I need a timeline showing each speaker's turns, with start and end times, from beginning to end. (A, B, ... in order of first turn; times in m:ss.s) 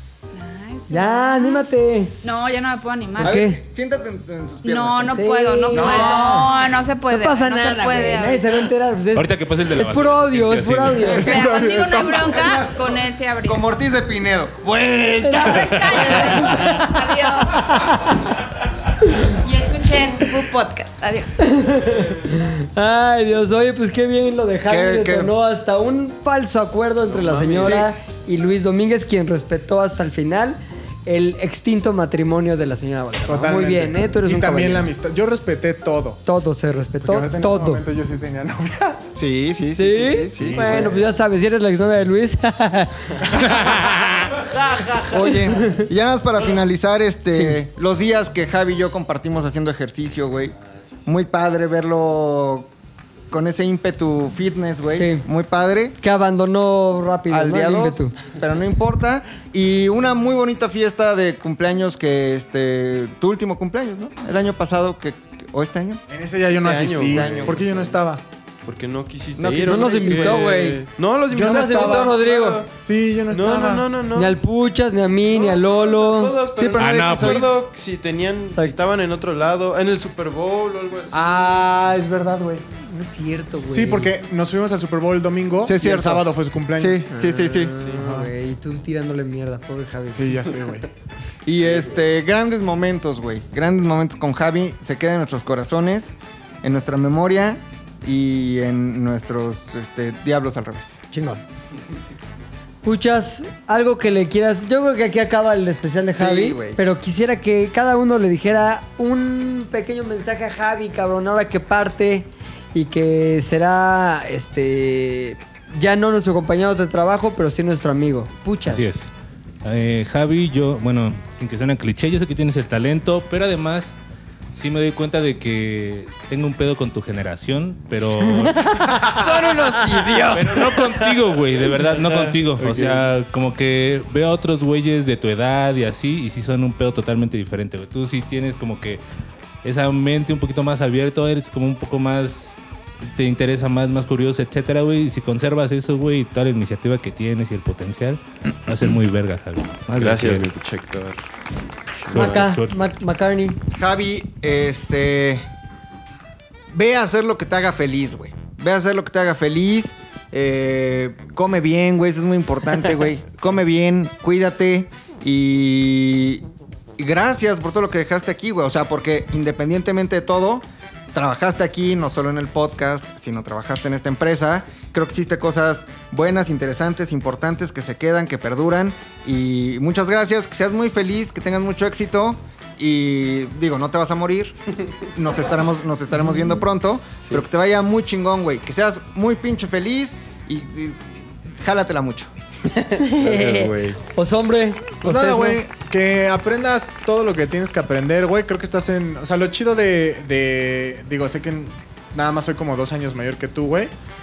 0:00.3-0:03.5 A
0:00.9-0:02.2 B
0:03.2-0:05.2 C
0:03.2-0:03.6 B
0:04.6-0:08.7 A
0:05.1-0:06.5 B
0:05.7-0:06.6 C
0:07.1-0:11.3 B
0:09.1-0:11.2 D
0:11.1-0:13.7 A
0:11.1-0:16.7 C
0:11.2-0:12.2 E
0:15.2-0:17.0 B
0:15.3-0:18.0 A
0:17.6-0:18.1 B
0:19.3-0:21.4 A
0:21.4-0:34.9 B
0:24.7-0:25.3 C
0:27.1-0:27.8 F
0:27.6-0:27.9 C
0:33.2-0:36.2 E
0:36.2-0:37.8 B
0:37.0-0:39.1 E
0:39.1-0:41.0 C
0:39.8-0:43.0 B
0:40.4-0:41.0 E
0:43.4-0:43.9 E
0:43.4-0:44.0 D
0:45.0-0:50.5 C
0:51.0-0:52.7 C
0:53.3-0:56.0 C
0:54.9-0:55.2 B
0:56.0-0:58.1 B
0:57.3-1:06.0 C
1:06.1-1:08.2 E
1:06.6-1:07.9 F
1:07.0-1:07.6 C
1:08.6-1:12.7 F
1:09.4-1:10.4 C
1:09.6-1:10.8 B
1:11.3-1:13.9 E
1:11.4-1:12.6 B
1:13.3-1:14.4 F
1:14.1-1:16.4 B
1:15.3-1:21.3 F
1:16.6-1:17.3 E
1:16.6-1:17.5 C
1:16.8-1:17.5 D
1:21.1-1:22.6 E
1:22.9-1:24.1 B
1:23.7-1:27.1 E
1:25.6-1:27.7 C
1:27.1-1:30.5 B
1:27.8-1:28.1 F
1:30.1-1:30.9 E
1:31.4-1:36.1 C
1:36.6-1:41.0 C
1:41.1-1:41.4 B
1:42.8-1:58.9 B
1:46.2-1:46.8 C
1:58.7-1:59.1 D
1:59.6-2:04.0 D
2:04.5-2:08.7 D
2:08.6-2:11.1 F
2:10.3-2:19.0 D
2:11.7-2:13.0 F
2:19.6-2:30.5 D
2:30.0-2:31.2 F
2:32.0-2:32.5 F
2:32.1-2:32.9 D
2:32.1-2:33.6 B
2:33.7-2:35.4 C
2:36.7-2:46.4 C
2:47.0-3:04.5 C
3:05.1-3:12.3 C
3:13.0-3:15.6 B
3:13.2-3:14.0 F
3:15.0-3:23.9 E